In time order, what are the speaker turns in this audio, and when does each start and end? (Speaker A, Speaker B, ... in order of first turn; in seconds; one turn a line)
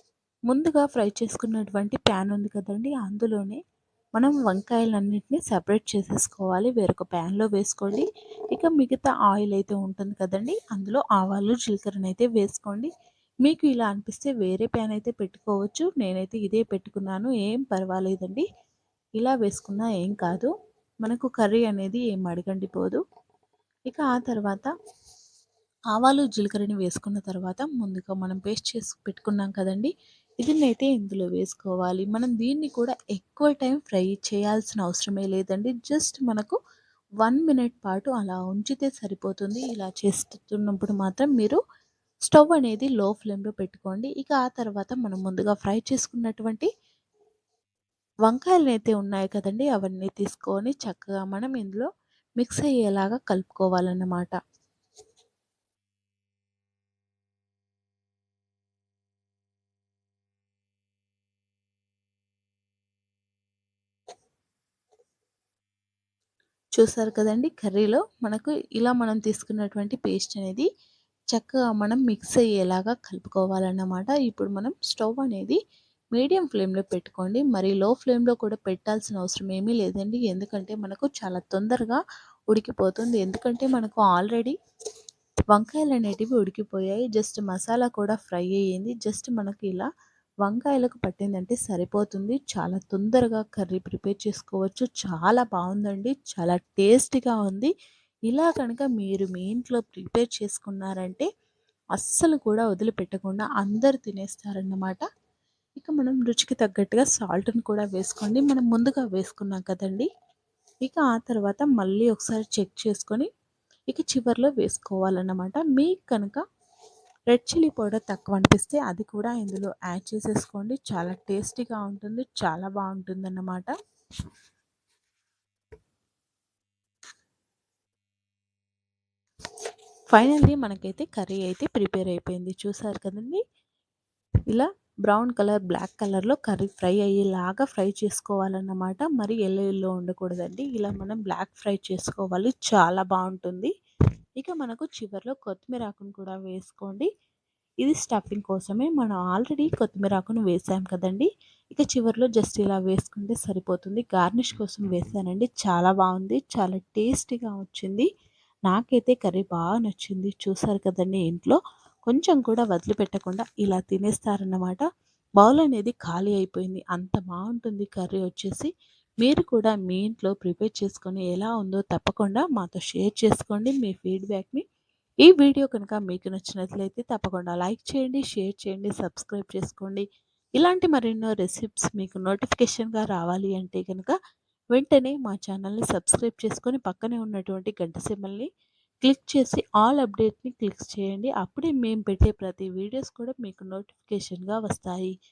Speaker A: 0.5-3.6
Speaker A: 4.2-12.9
Speaker A: 13.4-18.4
Speaker A: 19.2-20.5
Speaker A: 21.0-23.0
Speaker A: 23.9-24.7
Speaker A: 25.9-36.6
Speaker A: 37.2-41.6
Speaker A: 42.2-46.7
Speaker A: 48.3-54.4
Speaker A: 66.8-70.7
Speaker A: 71.3-75.6
Speaker A: 76.1-84.5
Speaker A: 85.5-89.9
Speaker A: 90.4-97.7
Speaker A: 98.3-101.3
Speaker A: 102.0-105.0
Speaker A: 105.8-110.1
Speaker A: 110.8-113.3
Speaker A: 113.9-116.4
Speaker A: 117.3-123.7
Speaker A: 130.1-133.4
Speaker A: 134.5-143.7
Speaker A: 144.4-147.1
Speaker A: 147.8-158.1
Speaker A: 158.7-164.8
Speaker A: 165.4-174.6
Speaker A: 175.2-180.0
Speaker A: 180.6-184.1
Speaker A: 184.7-188.5
Speaker A: 189.0-195.1